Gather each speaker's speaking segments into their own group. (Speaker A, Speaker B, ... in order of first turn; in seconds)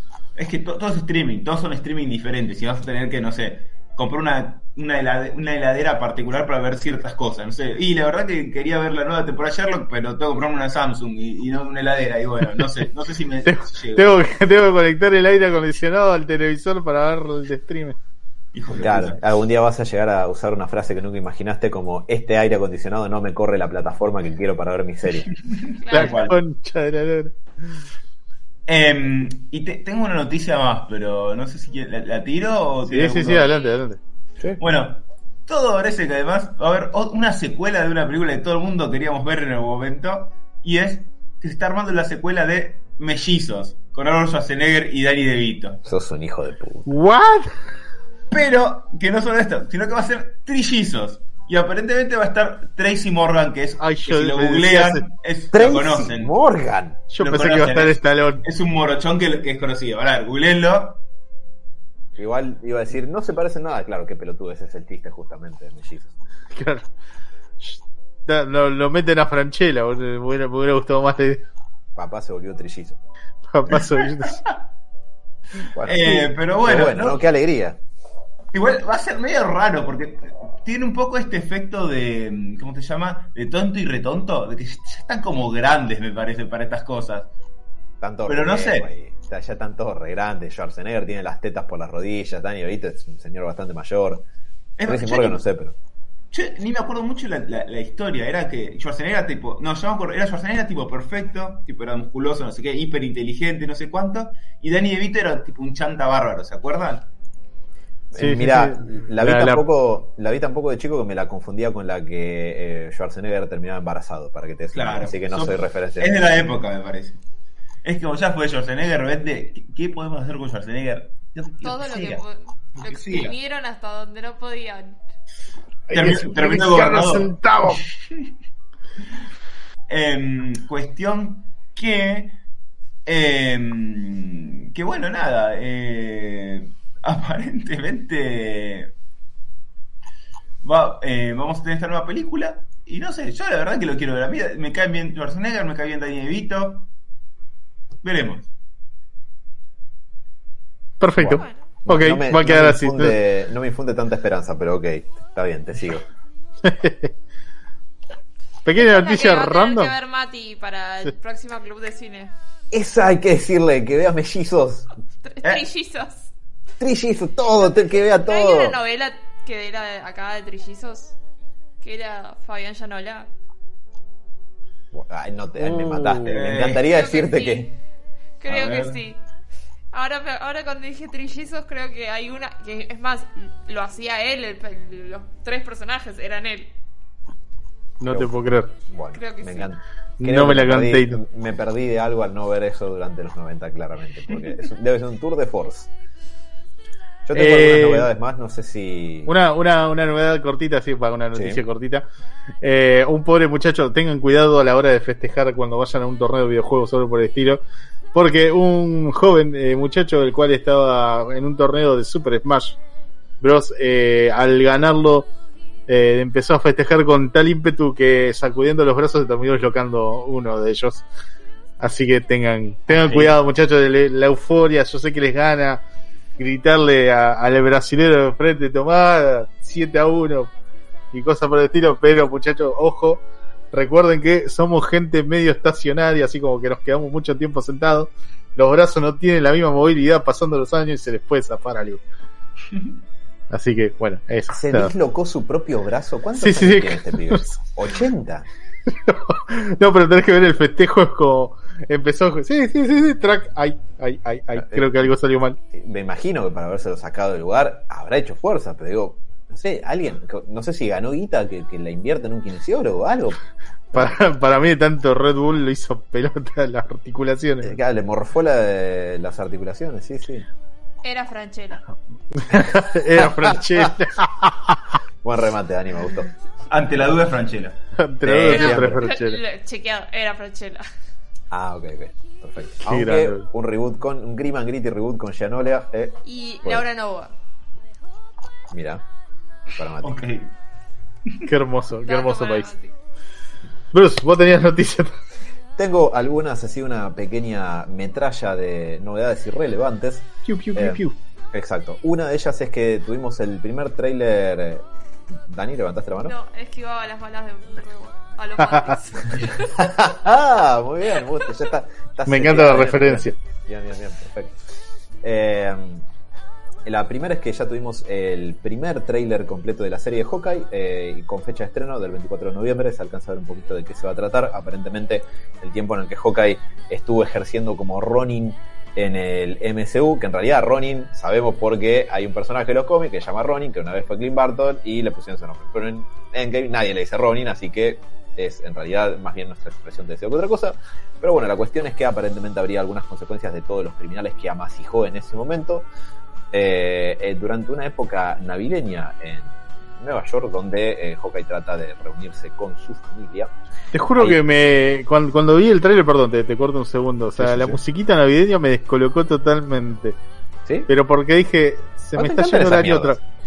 Speaker A: 0.4-14.2, 18.5-19.2, 25.5-26.4, 28.7-33.5, 34.6-45.8, 48.3-56.3, 57.2-61.0, 75.8-77.2, 78.5-87.3, 88.3-88.9, 94.8-95.4, 96.3-107.1, 114.7-117.2, 117.8-122.2, 122.8-123.3, 125.9-127.4, 129.9-132.4, 133.1-138.9, 140.6-146.9, 148.0-148.5, 176.3-176.8, 178.5-179.0, 222.9-223.4, 242.7-243.0, 276.7-277.8, 290.0-290.5
Speaker B: 13.5-18.0, 25.9-27.4, 32.9-34.0, 46.9-47.6, 53.8-55.1, 57.1-58.4, 66.5-66.9, 67.6-71.4, 73.5-74.4, 108.2-109.6, 125.9-127.8, 151.0-153.2, 156.6-157.1, 158.7-159.9, 175.6-176.4, 188.0-188.7, 190.2-191.2, 197.3-198.1, 199.3-202.1, 202.6-207.6, 208.1-212.8, 213.4-215.3, 215.9-221.1, 221.8-225.8, 226.4-230.5, 231.1-242.0, 243.5-244.9, 246.4-247.5, 248.9-255.6, 263.9-267.7, 272.4-274.8, 278.0-279.4, 282.9-283.5, 291.5-292.7, 293.9-295.2, 300.4-301.1, 312.3-313.4, 353.9-360.2, 360.9-363.2
Speaker C: 18.8-25.3, 45.9-46.9, 55.5-57.1, 62.2-66.1, 72.0-73.0, 75.7-77.8, 88.0-94.2, 94.8-95.8, 108.1-116.2, 151.2-156.1, 162.7-164.9, 166.8-168.8, 174.9-177.8, 188.1-188.3, 188.9-195.9, 197.3-199.3, 201.3-201.6, 244.5-248.5, 254.6-255.1, 255.7-263.4, 267.6-270.5, 273.2-273.9, 275.2-276.3, 278.2-279.1, 281.5-286.9, 288.7-289.0, 289.8-290.2, 295.8-301.0, 301.5-304.9, 305.5-306.3, 309.8-314.6, 315.2-316.1, 316.9-345.9, 346.5-353.5, 357.4-357.8, 362.2-363.2
Speaker D: 25.8-26.2, 121.6-125.0, 158.8-162.3, 165.2-166.3, 168.0-171.2, 171.8-173.3, 176.6-177.8, 178.4-179.2, 179.9-186.7, 189.1-189.7, 271.0-271.9, 278.4-280.9, 286.2-287.3, 292.1-292.9, 306.2-309.9